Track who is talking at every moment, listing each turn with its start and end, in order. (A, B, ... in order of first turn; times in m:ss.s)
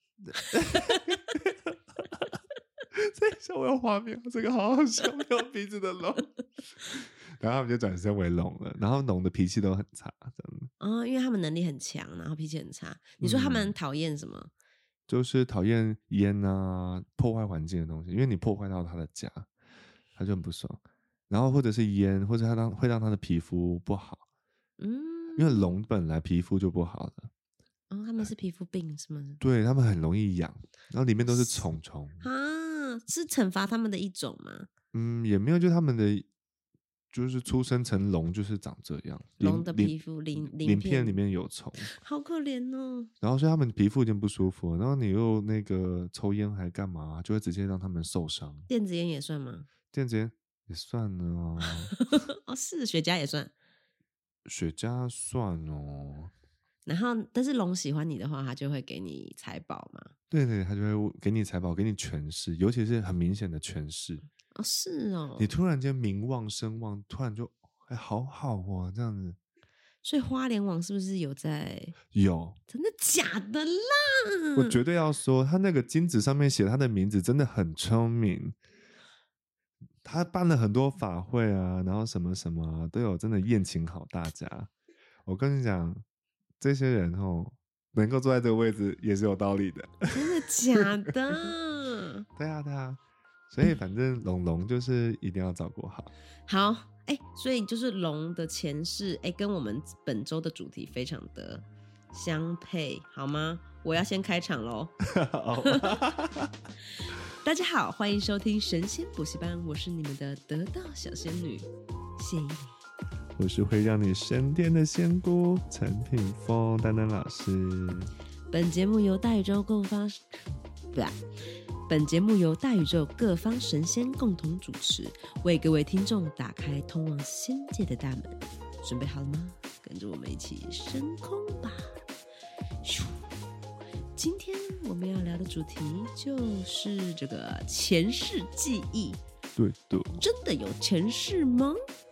0:00.2-0:02.4 A
0:00.3-0:01.1 B
0:02.9-0:06.3 A
0:06.8-0:10.7 A
0:10.8-0:14.5 B
0:13.2-0:13.7 A
0:15.1-0:19.5 A
0:20.2-0:24.2 A
0:24.8-0:25.7 B
0:25.4-0:27.3 A
0:27.9-0:29.4 B
0:29.4-0:32.2 A
0:31.3-0:31.6 B
0:32.2-0:34.7 B
0:34.9-0:36.3 A
0:37.1-0:41.9 A
0:39.4-0:41.2 B
0:41.9-0:43.1 B
0:43.2-0:48.7 A
0:48.7-0:49.7 B
0:49.9-0:52.0 A
0:51.9-0:53.5 B
0:54.4-0:56.3 A
0:56.8-1:00.1 B
1:00.3-1:04.2 A
1:04.5-1:05.5 B
1:05.4-1:09.4 A
1:10.0-1:12.0 B
1:12.1-1:12.6 A
1:12.7-1:14.8 B
1:14.6-1:18.6 A
1:20.0-1:24.7 A
1:25.2-1:26.0 A
1:26.6-1:30.8 A
1:30.1-1:32.2 B
1:32.4-1:36.1 A
1:36.5-1:44.9 B
1:45.1-1:46.5 A
1:45.6-1:46.0 B
1:47.4-1:51.6 B
1:52.2-1:52.7 B
1:53.4-1:58.1 A
1:58.5-2:00.2 B
2:00.9-2:01.2 B
2:01.9-2:11.9 B
2:12.8-2:13.3 B
2:14.2-2:19.2 B
2:19.6-2:20.1 A
2:20.1-2:21.8 B